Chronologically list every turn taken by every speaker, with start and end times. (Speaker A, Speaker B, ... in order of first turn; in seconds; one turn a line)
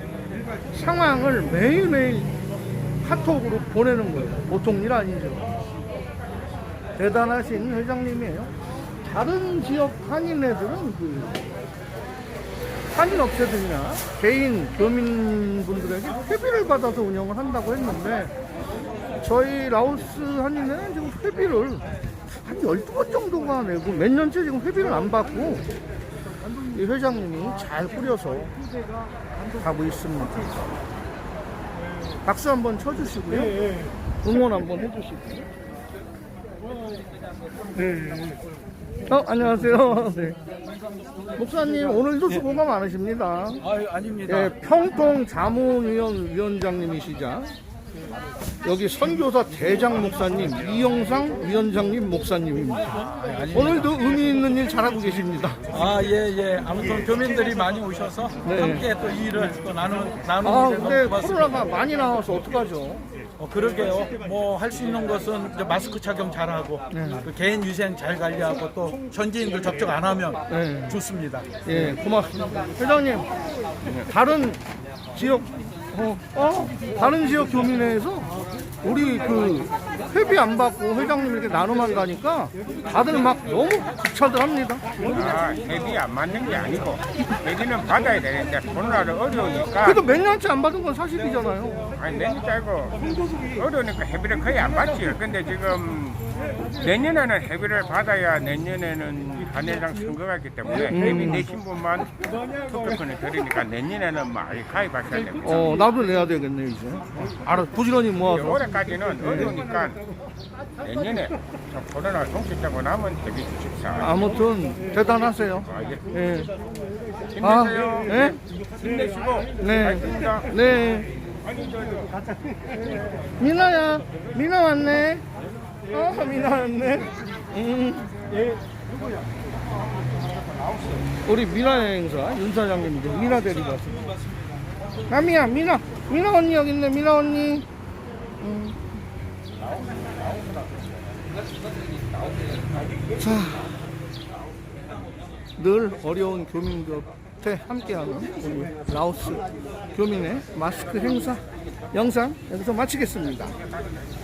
Speaker A: 0.7-2.3
Speaker A: 3.0-5.5
Speaker A: 7.0-8.5
Speaker A: 9.0-11.4
Speaker A: 12.9-18.3
Speaker A: 19.2-25.6
Speaker A: 26.7-28.5
Speaker A: 29.6-30.5
Speaker A: 32.2-33.5
Speaker A: 34.2-35.5
Speaker B: 37.9-38.2
Speaker A: 39.0-40.4
Speaker A: 41.4-43.6
Speaker B: 43.6-44.5
Speaker A: 44.3-47.5
Speaker A: 48.6-52.9
Speaker B: 53.2-53.9
Speaker A: 53.5-55.6
Speaker B: 55.7-61.6
Speaker A: 58.4-58.9
Speaker A: 60.4-63.1
Speaker B: 63.4-71.5
Speaker A: 66.9-67.2
Speaker A: 70.5-71.0
Speaker A: 71.7-73.2
Speaker A: 74.0-74.6
Speaker A: 75.1-78.3
Speaker A: 78.8-85.0
Speaker C: 85.1-89.8
Speaker A: 89.8-91.9
Speaker C: 92.0-96.2
Speaker C: 96.8-105.4
Speaker A: 100.9-101.5
Speaker A: 105.4-108.7
Speaker C: 108.6-110.0
Speaker A: 109.2-109.6
Speaker C: 110.8-113.9
Speaker A: 114.0-116.5
Speaker A: 117.4-118.4
Speaker C: 118.8-119.5
Speaker A: 119.6-121.1
Speaker A: 123.4-125.2
Speaker A: 125.9-128.2
Speaker A: 131.2-134.0
Speaker A: 135.1-137.6
Speaker A: 138.4-138.8
Speaker A: 143.2-143.7
Speaker A: 145.6-151.4
Speaker A: 151.9-153.6